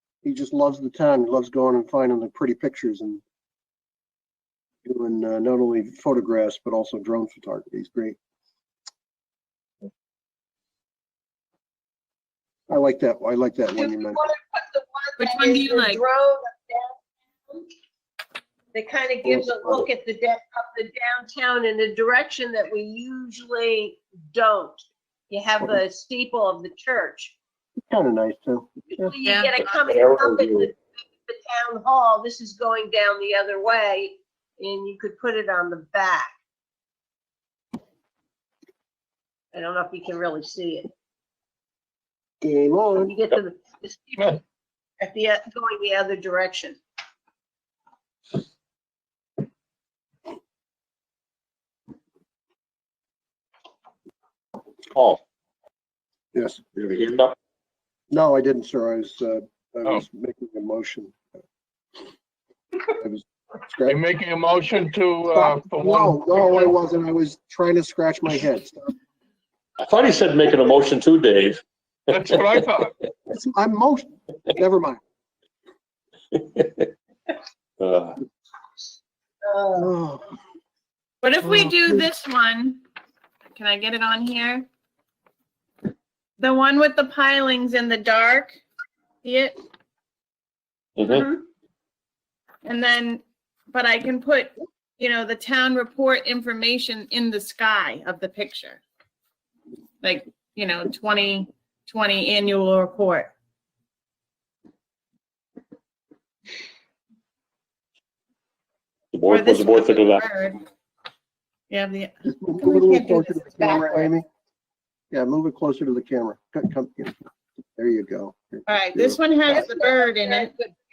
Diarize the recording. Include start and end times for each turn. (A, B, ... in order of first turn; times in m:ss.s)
0:00.2-0:03.2 A
0:04.8-0:08.2 A
0:12.7-0:14.2 A
0:13.7-0:17.0 B
0:15.2-0:16.0 C
0:18.7-0:27.3 B
0:19.2-0:19.9 A
0:27.9-0:29.1 A
0:29.0-0:36.4 B
0:29.2-0:29.5 C
0:29.8-0:30.7 D
0:39.5-0:40.9 B
0:42.4-0:43.2 A
0:43.0-0:44.4 B
0:45.0-0:46.8 B
0:54.9-0:55.2 D
0:56.3-0:56.6 A
0:56.8-0:57.4 D
0:58.1-1:01.2 A
1:02.9-1:04.0 A
1:03.9-1:06.4 E
1:05.3-1:08.9 A
1:09.8-1:11.6 D
1:12.1-1:12.9 E
1:13.3-1:15.0 A
1:16.3-1:16.9 D
1:17.8-1:18.2 D
1:19.4-1:19.9 B
1:19.8-1:20.3 A
1:21.2-1:22.8 C
1:21.4-1:22.0 A
1:23.6-1:24.7 C
1:26.4-1:28.6 C
1:29.2-1:29.6 C
1:31.0-1:31.3 D
1:31.1-1:31.4 B
1:32.6-1:38.8 C
1:40.0-1:43.3 C
1:49.1-1:50.2 D
1:49.3-1:50.6 C
1:51.7-1:54.1 C
1:52.2-1:54.2 A
1:55.1-1:57.2 A
1:57.7-1:59.2 A
1:58.7-2:00.5 C
1:59.5-2:00.7 B